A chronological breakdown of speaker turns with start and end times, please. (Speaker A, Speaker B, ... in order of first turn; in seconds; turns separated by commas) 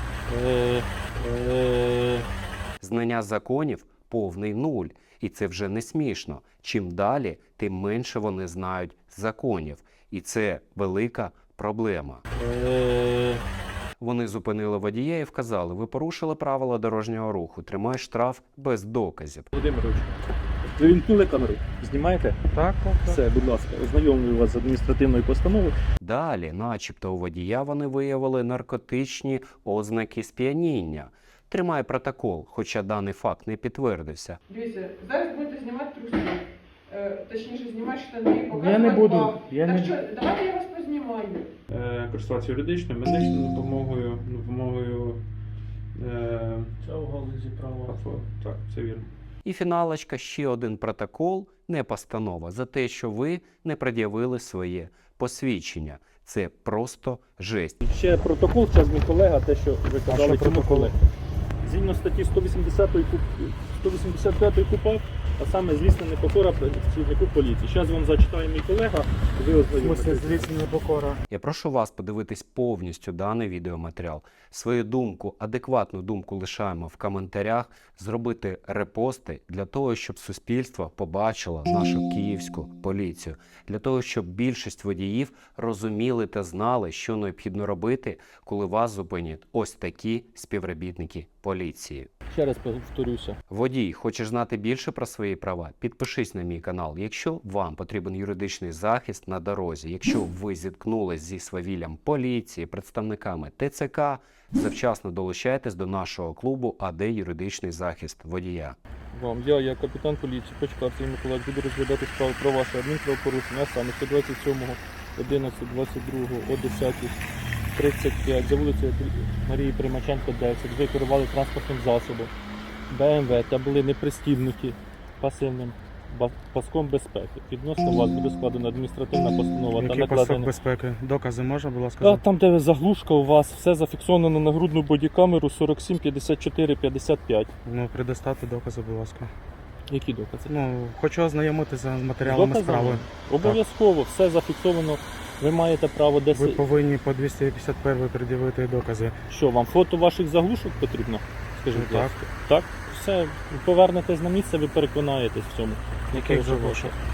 Speaker A: 0.3-2.3, Speaker B: 2.8-12.2, Speaker A: 12.3-13.4, Speaker B: 14.0-19.5, Speaker A: 19.5-20.1, Speaker A: 20.6-22.4, Speaker C: 22.5-23.2, Speaker A: 23.1-25.8, Speaker B: 26.0-34.4, Speaker D: 34.5-41.5, Speaker C: 38.5-40.0, Speaker E: 41.7-45.2, Speaker E: 46.0-46.7, Speaker A: 46.8-48.0, Speaker E: 47.9-49.1, Speaker B: 49.4-57.8, Speaker A: 57.8-61.0, Speaker C: 60.1-60.9, Speaker A: 61.6-70.4, Speaker C: 69.8-71.2, Speaker B: 71.3-92.1, Speaker A: 92.3-93.4, Speaker B: 93.5-108.8, Speaker A: 109.1-117.2, Speaker A: 117.8-122.3, Speaker A: 122.9-130.5, Speaker C: 129.8-132.2, Speaker A: 132.0-137.5, Speaker C: 137.7-139.3, Speaker A: 139.9-140.5, Speaker C: 140.5-143.6, Speaker A: 142.2-146.6, Speaker C: 146.3-149.2, Speaker A: 149.3-156.9, Speaker C: 151.7-152.1, Speaker C: 156.1-156.9